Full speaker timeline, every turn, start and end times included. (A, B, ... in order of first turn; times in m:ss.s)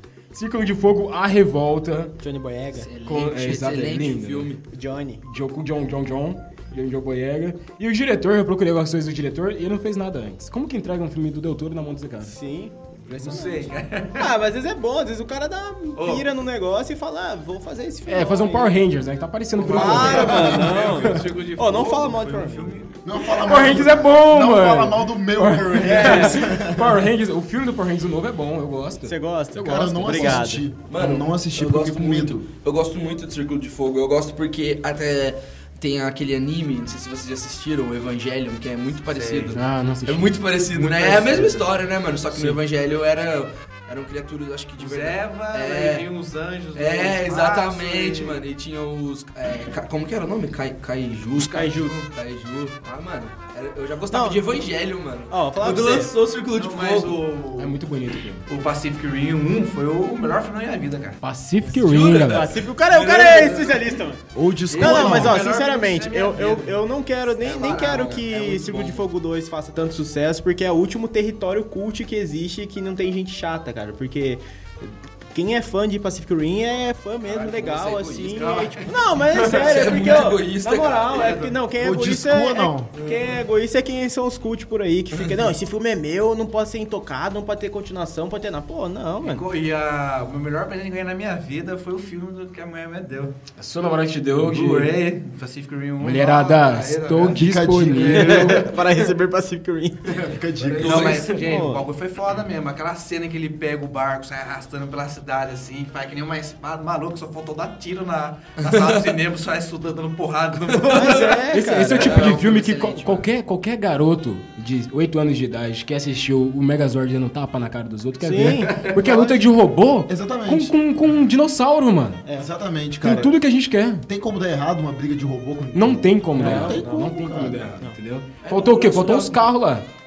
0:00.3-0:02.2 A
0:02.2-0:02.9 B
0:02.8-0:04.6 C
0:03.0-0:04.5 A
0:04.7-0:05.2 B
0:05.2-0:12.4 A
0:12.2-0:18.8 B
0:13.1-0:13.7 A
0:13.2-0:14.3 D
0:16.0-0:16.2 D
0:18.1-0:21.2 A
0:19.6-0:23.0 D
0:19.6-0:22.8 B
0:19.7-0:20.8 E
0:23.0-0:27.0 E
0:23.4-0:30.5 A
0:25.8-0:26.5 B
0:29.0-0:30.7 B
0:29.6-0:32.5 E
0:30.8-0:46.1 C
0:39.1-0:39.6 D
0:39.5-0:40.3 A
0:40.7-0:41.6 D
0:44.8-0:48.4 D
0:46.7-0:57.2 C
0:51.3-0:52.0 B
0:54.1-0:54.4 B
0:55.3-0:56.1 B
0:56.5-0:57.8 D
0:57.6-0:58.5 A
0:58.5-1:01.2 D
1:01.2-1:02.5 A
1:01.7-1:03.9 C
1:02.3-1:04.2 B
1:04.3-1:05.4 E
1:04.7-1:06.8 D
1:04.7-1:29.4 B
1:07.4-1:08.3 D
1:07.5-1:09.0 C
1:17.3-1:18.7 C
1:18.2-1:19.9 D
1:19.3-1:21.3 C
1:21.1-1:21.5 D
1:21.8-1:22.9 E
1:29.2-1:33.4 D
1:33.6-1:34.9 A
1:34.3-1:38.5 D
1:36.0-1:38.7 A
1:37.3-1:38.7 E
1:38.1-1:40.1 B
1:40.1-1:41.5 A
1:40.2-1:41.2 E
1:40.7-1:41.2 C
1:40.8-1:51.3 D
1:41.3-1:41.8 B
1:48.6-1:49.0 C
1:50.8-1:51.2 C
1:50.8-1:52.3 B
1:51.5-2:02.2 A
1:52.0-1:53.3 C
1:58.2-1:59.4 B
2:00.1-2:00.7 E
2:02.2-2:02.5 B
2:02.4-2:03.4 E
2:03.0-2:04.0 A
2:04.0-2:07.6 E
2:05.7-2:09.9 A
2:06.4-2:07.1 B
2:08.4-2:09.4 C